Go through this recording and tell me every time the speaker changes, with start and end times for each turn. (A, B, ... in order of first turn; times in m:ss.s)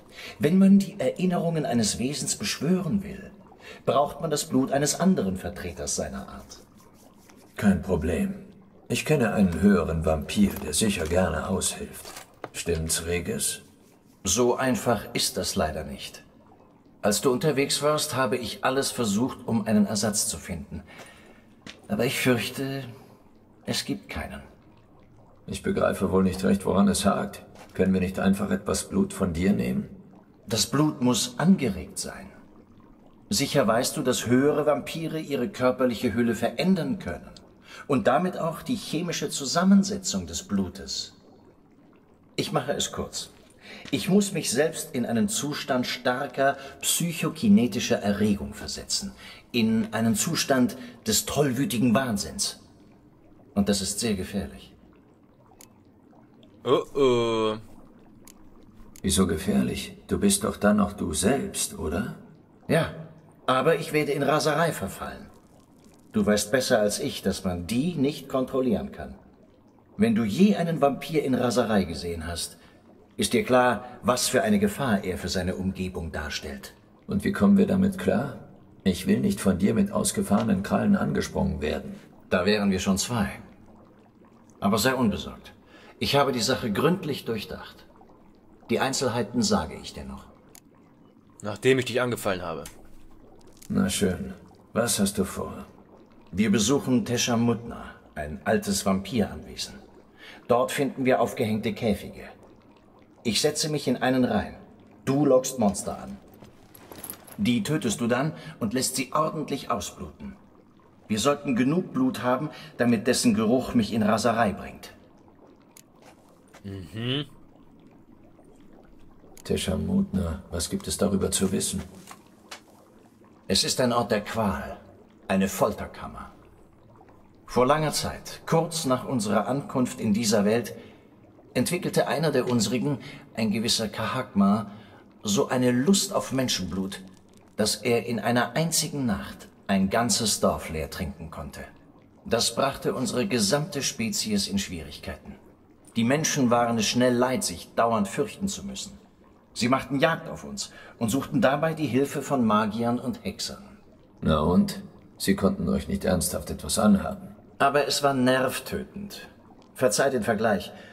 0:00.4-0:06.6 A
0:07.6-0:13.6 B
0:14.2-0:16.2 A
0:17.0-0:20.9 A
0:21.9-0:22.9 A
0:23.6-0:24.5 A
0:25.5-0:30.0 B
0:30.5-0:32.3 A
0:33.3-0:41.2 A
0:42.4-0:43.3 A
0:43.9-0:52.6 A
0:53.6-0:54.7 A
0:56.6-0:57.6 C
0:59.0-1:02.2 B
1:02.7-1:05.3 A
1:06.1-1:09.2 A
1:10.0-1:12.6 A
1:13.2-1:16.7 A
1:17.1-1:22.0 B
1:22.3-1:23.4 A
1:24.6-1:27.9 A
1:28.7-1:30.3 A
1:31.4-1:32.7 C
1:33.7-1:35.7 B
1:36.3-1:39.8 A
1:40.5-1:42.3 A
1:43.2-1:46.2 A
1:47.4-1:50.4 A
1:51.1-1:55.0 A
1:56.6-1:57.3 C
1:59.4-2:01.9 B
2:03.5-2:06.3 A
2:07.5-2:10.8 A
2:11.6-2:14.7 A
2:15.2-2:17.0 A
2:17.6-2:21.7 A
2:22.2-2:25.4 A
2:25.9-2:29.0 A
2:29.5-2:33.8 A
2:34.2-2:37.4 B
2:37.6-2:40.7 A